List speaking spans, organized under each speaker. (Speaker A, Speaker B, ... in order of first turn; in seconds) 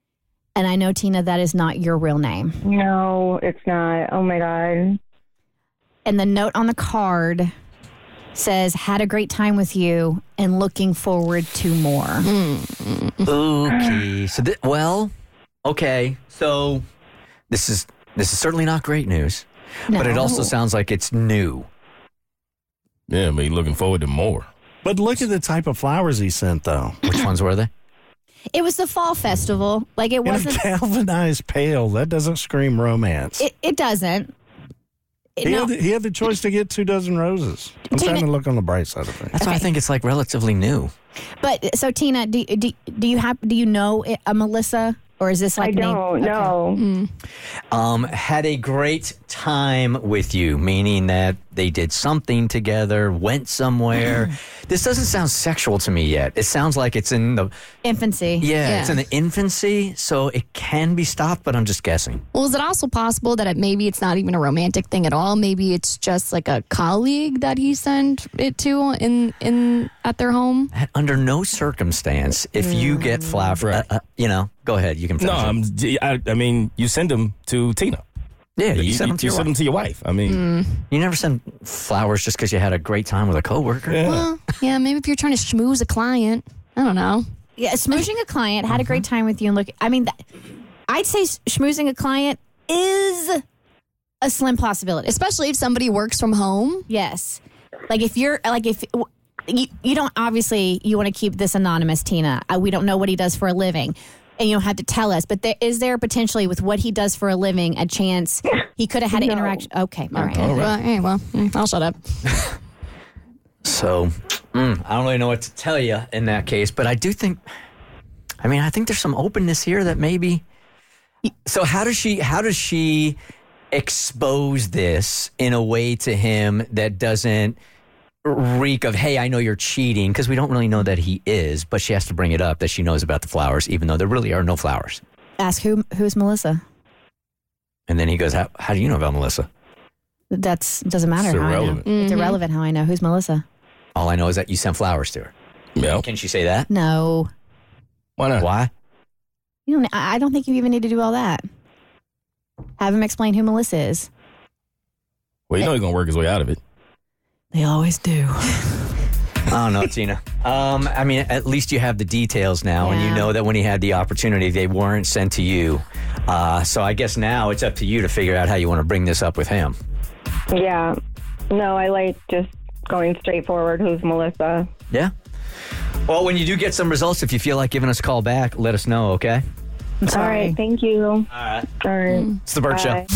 Speaker A: 0.6-2.6, 6.1-7.5, 8.3-12.3, 19.9-20.5, 28.5-30.6, 33.4-34.3, 35.4-35.7, 37.9-38.3, 39.4-39.7, 41.4-46.6, 57.9-58.5, 72.8-73.4, 87.6-90.2, 90.9-93.4, 94.2-95.2, 96.9-110.7, 135.4-136.6, 140.3-143.4, 146.7-147.3, 149.7-151.4, 152.8-154.1, 157.5-158.6, 162.8-163.3, 180.0-180.6
Speaker B: 2.7-5.0, 45.6-46.8, 170.5-170.9, 171.5-174.7, 180.1-181.2, 181.9-182.2, 182.7-183.0
Speaker C: 12.2-13.3, 46.8-47.1, 58.6-59.0, 62.3-70.7, 80.3-80.8, 84.0-87.3, 95.0-96.9, 110.1-112.5, 141.8-142.4
Speaker D: 13.3-15.1, 15.7-16.8, 17.5-21.7, 27.0-27.7, 39.4-40.9, 47.7-57.5, 58.4-62.2, 70.7-75.5, 78.6-79.5, 80.9-84.0, 113.6-117.4, 118.4-120.4, 121.5-123.2, 123.7-127.6, 128.3-135.0, 137.9-139.5, 143.9-145.3, 145.9-146.7, 148.4-148.7, 159.5-169.8, 176.1-179.4, 181.3-181.7, 182.4-183.0
Speaker E: 23.1-24.5, 73.6-73.8, 75.2-78.0, 78.7-80.4, 83.9-84.3, 110.3-110.8, 141.2-141.9, 145.8-146.1, 148.2-148.5, 155.5-156.6
Speaker F: 24.9-26.9, 30.3-33.4, 35.4-39.4